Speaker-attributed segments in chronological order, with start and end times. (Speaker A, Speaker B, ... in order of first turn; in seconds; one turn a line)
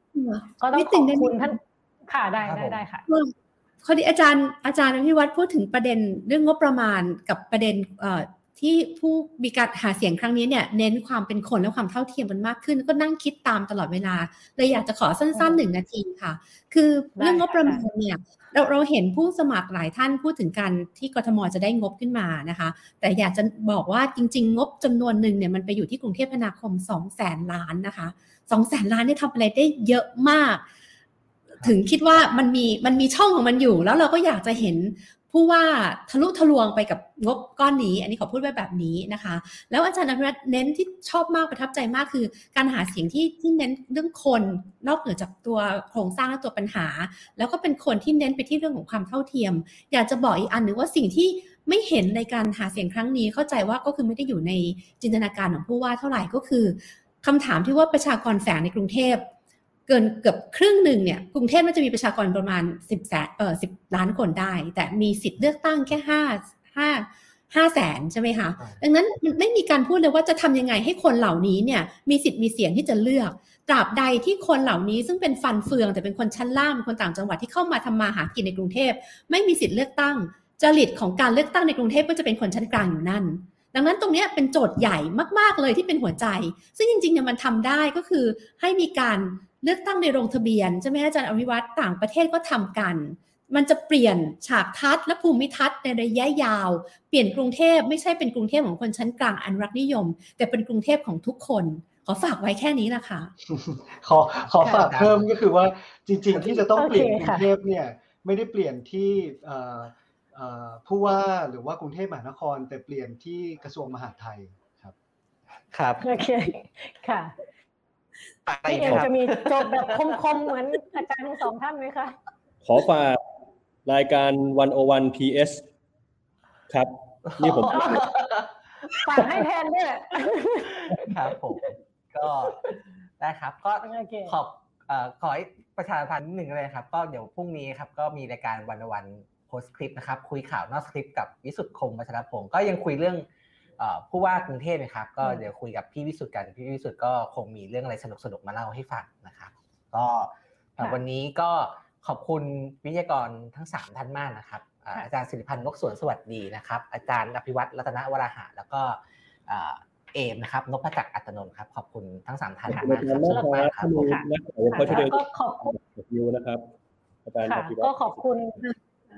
Speaker A: 0.1-1.6
Speaker B: 0.6-3.0
Speaker C: 2.4-2.8
Speaker A: 3.1-30.6
Speaker B: 15.3-15.6
Speaker B: 17.2-17.8
Speaker A: 31.6-59.3
Speaker A: 59.9-103.3
Speaker D: 103.5-114.9
Speaker C: 104.5-105.3
Speaker B: 106.3-107.5
Speaker C: 115.7-116.1
Speaker B: 116.0-117.3
Speaker C: 118.5-120.2
Speaker B: 118.7-122.2
Speaker E: 122.6-123.2
Speaker E: 123.8-125.6
Speaker E: 126.7-128.1
Speaker C: 127.3-128.5
Speaker B: 127.7-128.1
Speaker B: 129.0-131.1
Speaker C: 131.0-132.7
Speaker B: 132.5-132.7
Speaker C: 133.2-143.3
Speaker B: 133.8-134.4
Speaker C: 143.8-163.9
Speaker E: 162.7-166.6
Speaker B: 162.7-165.8
Speaker E: 167.2-168.2
Speaker B: 167.5-168.6